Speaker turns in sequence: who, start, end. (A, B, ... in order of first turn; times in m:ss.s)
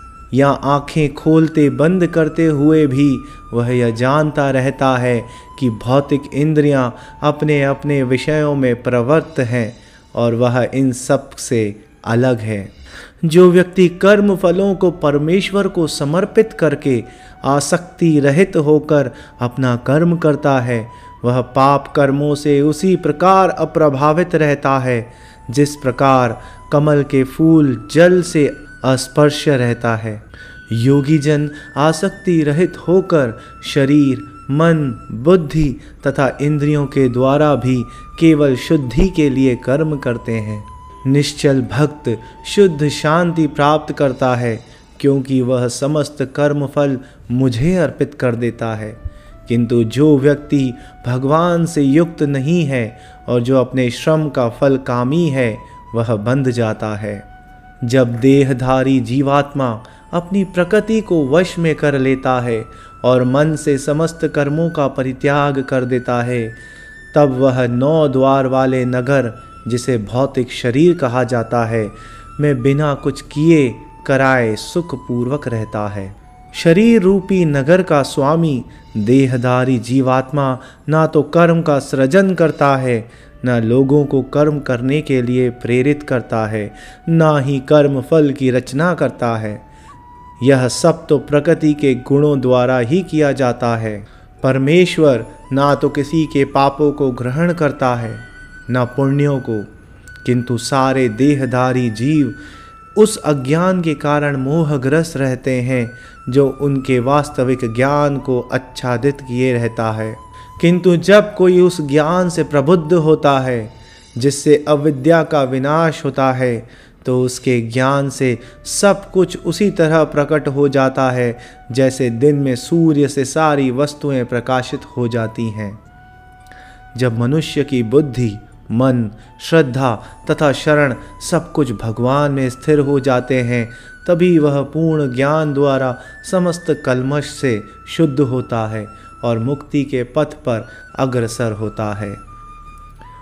0:00.3-0:12.7 A
0:13.2-0:57.2 A
0:57.8-1:06.6 A
1:07.1-1:29.6 A
1:30.4-1:39.7 A
1:40.2-1:42.4 A
1:43.0-2:05.8 A
2:07.0-2:22.2 A